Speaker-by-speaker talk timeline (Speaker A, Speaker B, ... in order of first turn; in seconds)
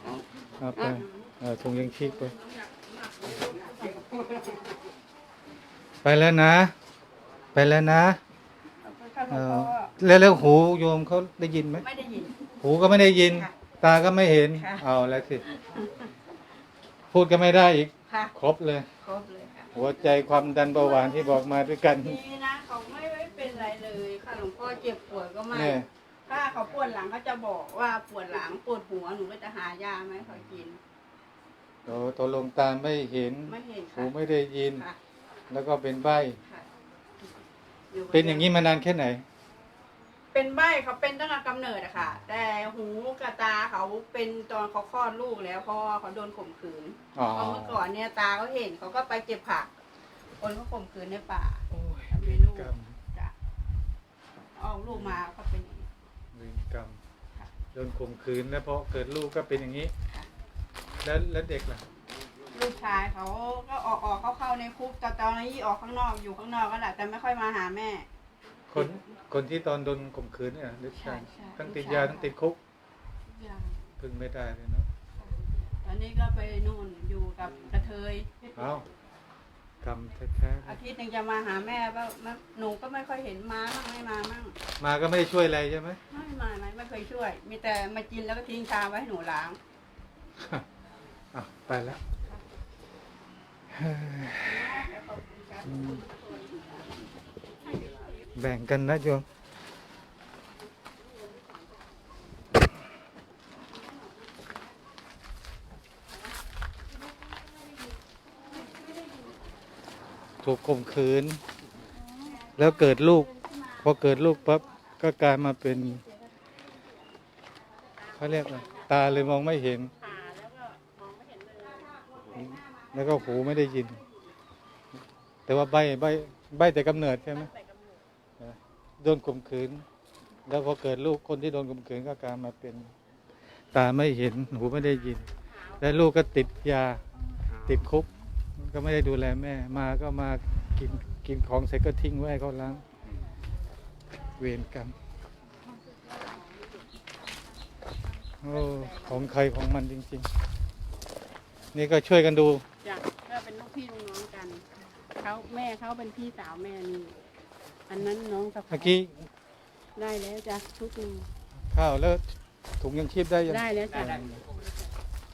Speaker A: 0.6-2.3, 6.0-6.7, 7.5-8.2, 9.3-11.8, 12.6-15.4, 17.1-18.9, 19.7-22.2, 25.5-25.9, 31.9-34.8, 35.5-36.4, 38.1-39.2, 47.1-47.8, 51.7-53.0, 54.9-55.2, 56.3-57.0, 57.7-59.9, 61.0-61.8, 68.7-72.6, 74.0-74.9, 78.5-78.9, 79.8-80.8, 84.8-86.0, 90.4-90.6, 91.3-92.0, 93.7-94.8, 95.6-96.0, 98.3-99.2, 110.4-111.4, 112.5-113.3, 113.8-116.0, 118.1-119.9, 122.3-124.0, 125.5-127.5, 128.4-129.8, 130.5-132.9, 133.7-135.3, 135.8-137.0, 137.5-142.8, 144.4-144.9, 148.4-150.3, 151.7-152.6, 158.7-159.3, 161.7-162.2, 162.8-164.4
Speaker B: 8.8-9.9, 11.8-12.3, 14.6-14.8, 15.5-16.1, 18.1-18.3, 19.0-19.7, 20.5-30.8, 33.5-34.1, 37.9-38.6, 40.3-49.7, 50.4-53.3, 54.5-55.9, 62.5-68.0, 71.0-72.3, 73.3-73.8, 75.2-78.5, 80.6-84.5, 86.1-89.6, 94.4-96.8, 97.7-98.1, 112.2-112.5
Speaker C: 120.0-122.0, 152.8-154.6, 155.2-157.1, 157.9-158.8, 159.9-161.2, 163.5-164.4